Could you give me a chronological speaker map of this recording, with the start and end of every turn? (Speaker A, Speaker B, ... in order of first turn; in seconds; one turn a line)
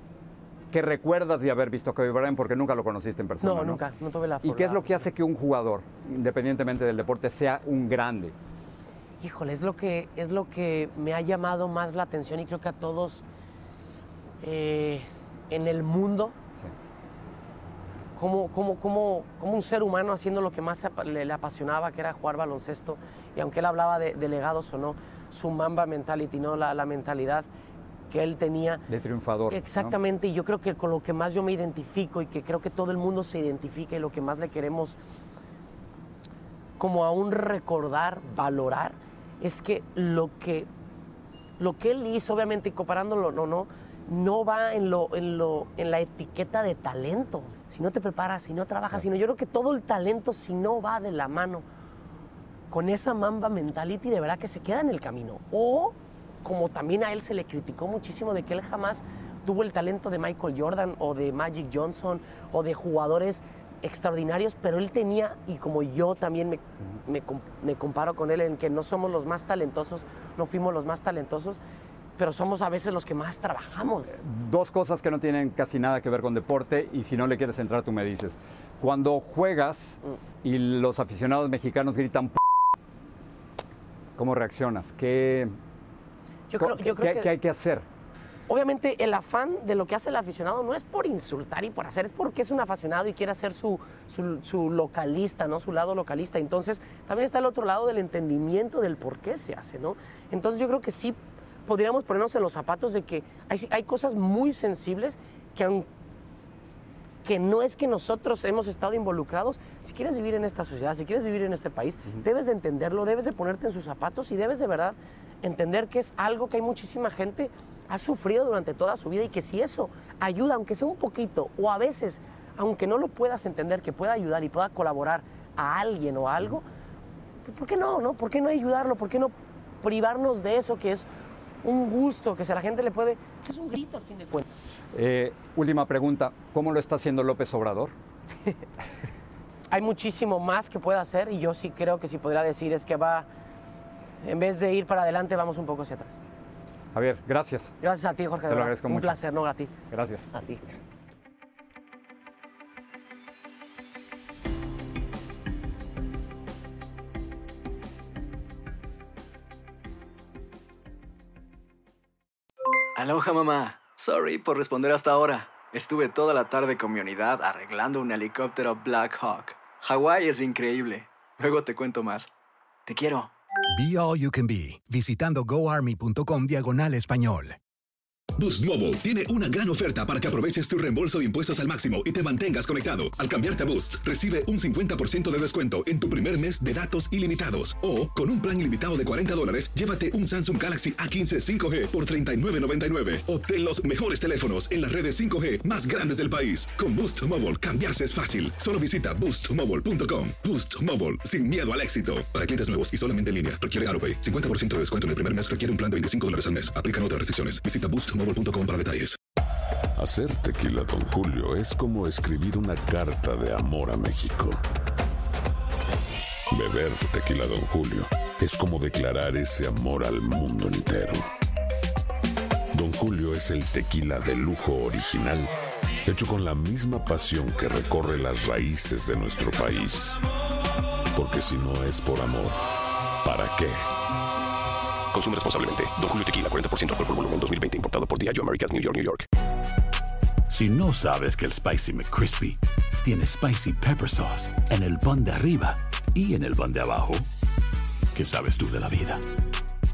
Speaker A: 0.7-3.8
Speaker B: 3.4-4.8
Speaker A: 4.4-8.3
Speaker B: 9.2-13.2
Speaker B: 14.4-16.4
Speaker B: 18.1-27.5
Speaker B: 28.1-28.8
Speaker A: 28.9-29.9
Speaker B: 29.5-35.0
Speaker B: 36.8-40.7
Speaker B: 41.6-51.6
Speaker B: 52.7-71.6
Speaker B: 72.2-74.1
Speaker A: 74.1-82.4
Speaker A: 84.2-85.5
Speaker B: 86.5-87.3
Speaker A: 86.6-87.8
Speaker B: 88.5-105.9
Speaker B: 107.2-126.6
Speaker B: 127.4-131.1
Speaker B: 131.6-134.5
Speaker A: 134.9-137.9
Speaker B: 139.7-143.3
Speaker B: 144.2-146.2
Speaker A: 146.9-147.7
Speaker B: 147.8-149.7
Speaker A: 148.5-149.2
Speaker A: 149.9-150.3
Speaker B: 150.3-150.6
Speaker C: 163.0-172.3
Speaker C: 172.9-173.3
Speaker D: 173.7-177.6
Speaker E: 178.4-209.2
Speaker F: 210.0-214.6
Speaker F: 216.5-221.2
Speaker F: 222.7-225.5
Speaker F: 226.1-230.2
Speaker F: 231.2-232.6
Speaker F: 233.2-233.8
Speaker G: 235.1-239.3
Speaker H: 240.5-247.3
Speaker H: 248.1-249.2